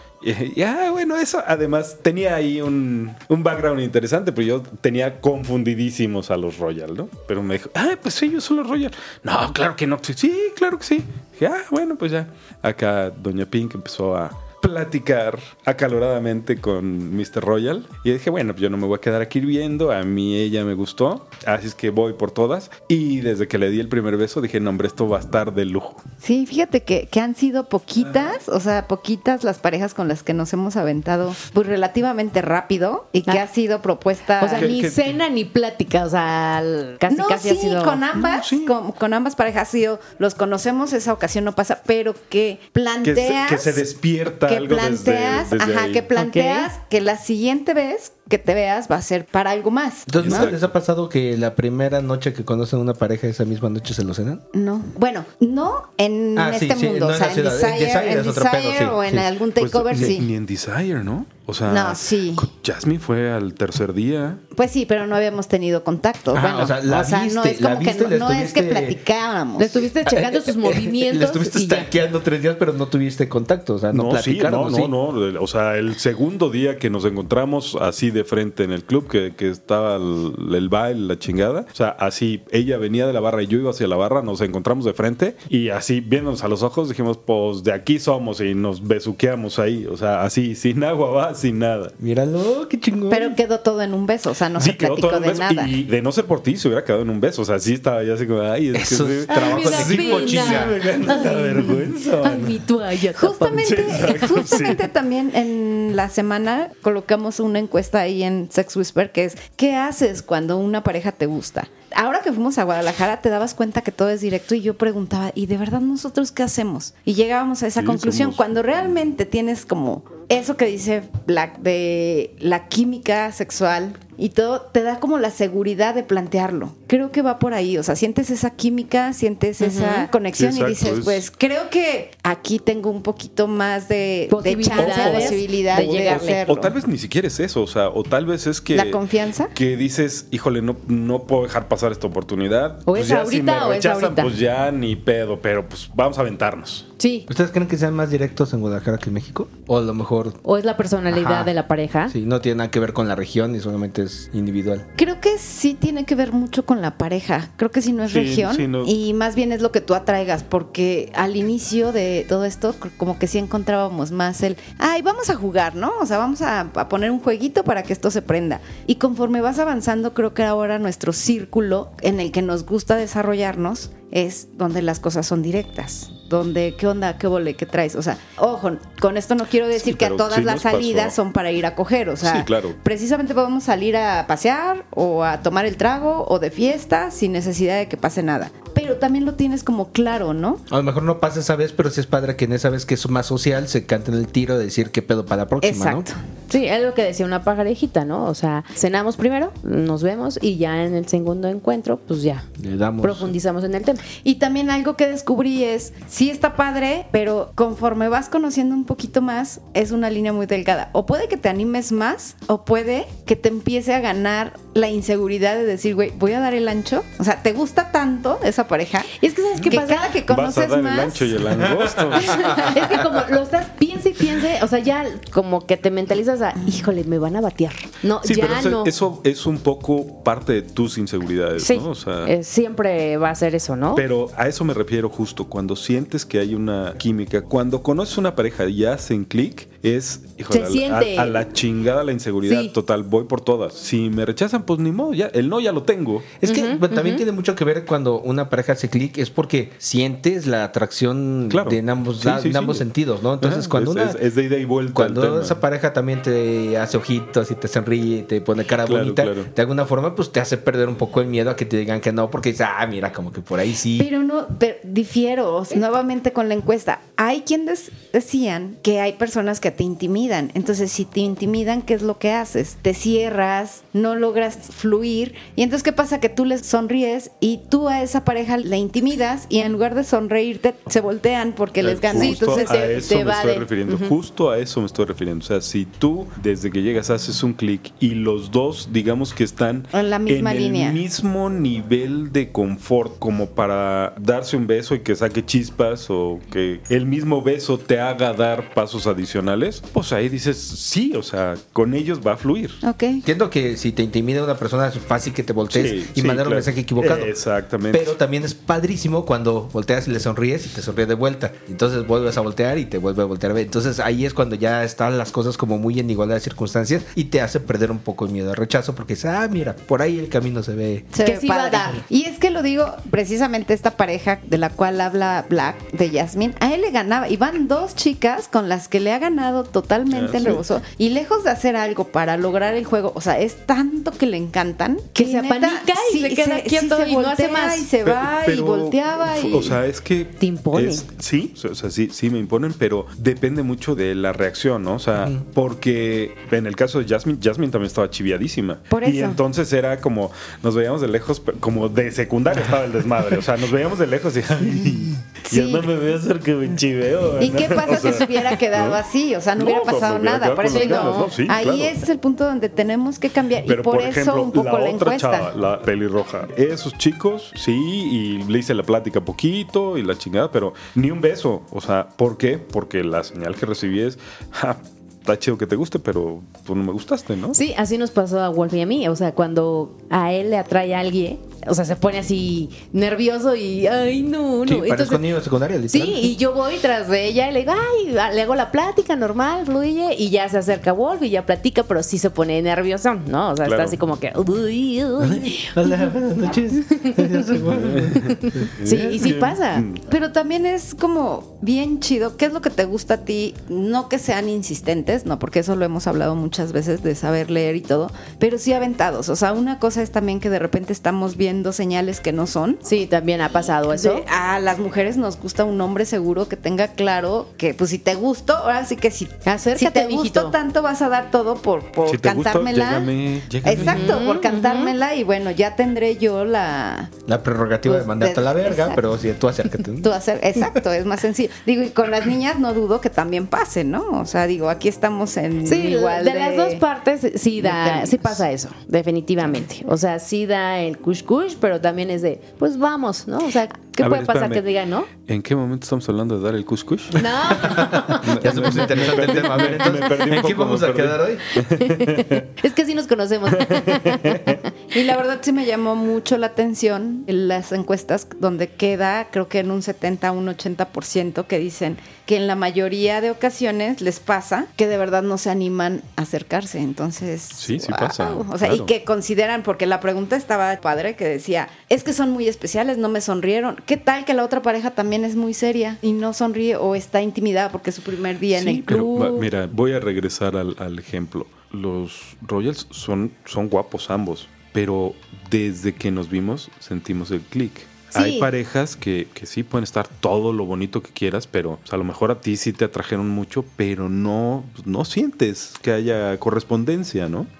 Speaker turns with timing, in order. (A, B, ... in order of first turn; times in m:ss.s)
0:00.2-0:26.0 A
0:26.2-0:34.7 B
0:28.0-0:28.4 A
0:34.4-0:38.0 C
0:34.4-0:35.2 A
0:37.1-0:43.8 B
0:38.1-0:38.7 A
0:43.0-0:46.1 A
0:44.4-0:50.5 B
0:46.2-0:46.7 C
0:50.1-0:54.4 D
0:50.2-0:50.7 A
0:54.5-1:00.3 B
0:56.4-0:59.3 D
0:59.6-1:04.4 A
0:59.9-1:00.2 D
1:01.7-1:02.5 B
1:04.5-1:09.9 B
1:06.3-1:09.0 D
1:09.6-1:11.9 C
1:10.0-1:15.0 D
1:13.9-1:32.0 A
1:32.0-1:33.4 D
1:33.1-1:35.7 B
1:34.6-1:42.6 A
1:38.7-1:40.9 D
1:39.3-1:44.0 C
1:43.2-2:16.8 B
1:43.6-1:44.9 A
1:57.8-1:58.5 A
2:09.6-2:10.1 C
2:10.3-2:11.2 A
2:14.3-2:16.4 C
2:14.7-2:26.9 A
2:18.7-2:19.5 B
2:22.9-2:24.3 C
2:27.0-2:27.3 C
2:27.3-2:30.4 D
2:30.4-2:32.2 C
2:31.1-2:31.5 D
2:32.1-2:34.9 D
2:35.0-3:10.6 B
2:38.1-2:38.9 A
2:59.7-3:01.2 A
3:02.2-3:02.8 A
3:10.7-3:16.1 D
3:15.6-3:16.2 B
3:16.5-3:22.5 C
3:22.6-3:23.3 D
3:23.0-3:24.0 C
3:24.2-3:41.4 B
3:39.2-3:40.1 C
3:39.6-3:42.8 A
3:41.9-3:42.9 D
3:42.2-3:42.8 B
3:42.6-3:48.9 C
3:48.2-3:52.3 A
3:51.6-3:54.0 C
3:54.0-4:06.3 A
4:00.5-4:01.4 C
4:02.4-4:02.7 C
4:06.4-4:14.2 D
4:06.4-4:07.2 C
4:11.5-4:12.9 A
4:13.4-4:15.6 A
4:14.9-4:24.1 D
4:18.8-4:19.5 A
4:24.0-4:42.9 B
4:41.8-5:02.8 A
4:42.1-4:44.1 C
4:49.9-4:51.0 B
5:02.8-5:03.2 B
5:03.2-5:07.3 D
5:05.7-5:08.1 A
5:07.9-5:21.1 D
5:21.1-5:39.8 B
5:21.2-5:22.0 C
5:30.1-5:30.6 A
5:35.2-5:37.9 C
5:38.0-5:59.0 A
5:40.4-5:41.0 C
5:45.2-5:45.4 D
5:48.9-5:49.4 B
5:55.5-5:55.9 B
5:57.4-6:05.5 B
5:59.6-6:02.0 A
6:00.7-6:01.3 C
6:03.7-6:17.6 A
6:17.5-6:25.2 C
6:24.7-6:26.4 D
6:25.9-6:35.8 C
6:33.6-6:34.0 A
6:35.2-6:38.7 D
6:36.9-6:37.4 C
6:37.7-6:40.0 A
6:38.3-6:39.9 C
6:40.1-6:52.8 B
6:52.8-6:54.3 C
6:53.9-7:07.1 B
6:59.4-7:00.6 C
7:02.0-7:04.2 A
7:03.7-7:04.9 C
7:07.3-7:10.1 D
7:07.9-7:09.0 B
7:10.0-7:16.8 B
7:15.6-7:25.1 C
7:17.6-7:18.4 B
7:24.0-7:24.6 A
7:25.2-7:27.2 A
7:27.2-7:30.0 C
7:27.5-7:31.4 D
7:28.2-7:32.5 A
7:31.7-7:34.6 C
7:33.5-7:34.6 A
7:34.9-7:59.0 B
7:47.6-7:48.9 A
7:58.5-7:59.5 C
7:58.9-8:17.5 A
8:08.2-8:08.5 C